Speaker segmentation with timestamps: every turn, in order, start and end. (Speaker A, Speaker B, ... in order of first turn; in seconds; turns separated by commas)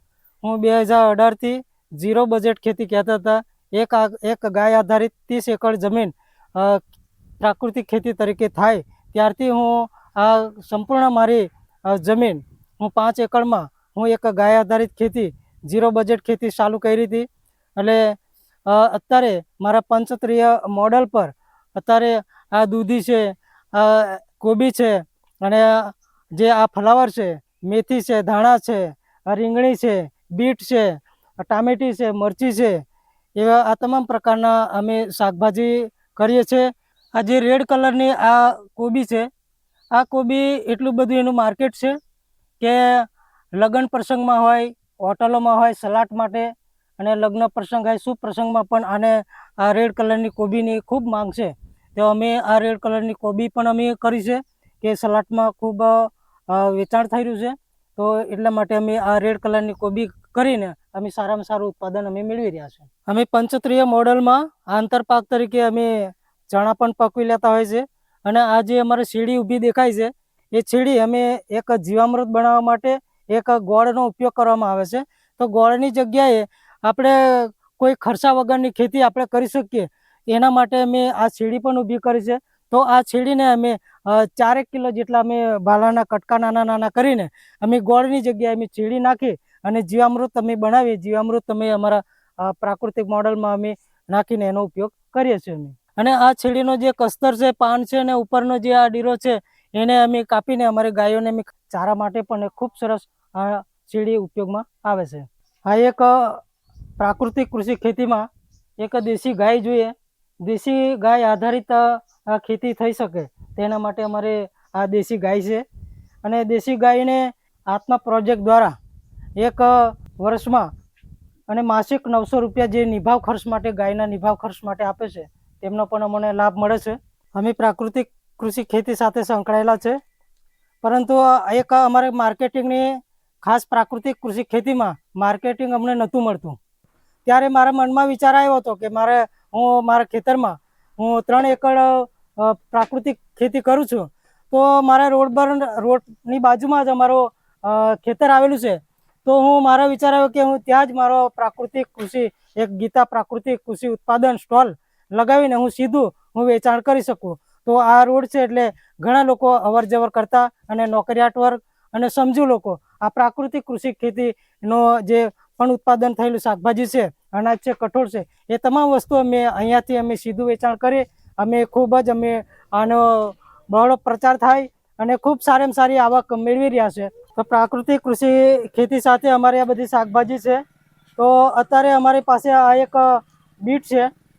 Speaker A: 0.4-6.8, Speaker A: 7.4-18.2, Speaker A: 18.7-32.8, Speaker A: 33.4-39.3, Speaker A: 39.9-42.0, Speaker A: 42.6-106.4, Speaker A: 107.0-108.3, Speaker A: 108.8-115.7, Speaker A: 116.2-118.8, Speaker A: 119.4-120.7, Speaker A: 121.5-130.0, Speaker A: 130.8-136.6, Speaker A: 137.3-180.6, Speaker A: 181.2-184.1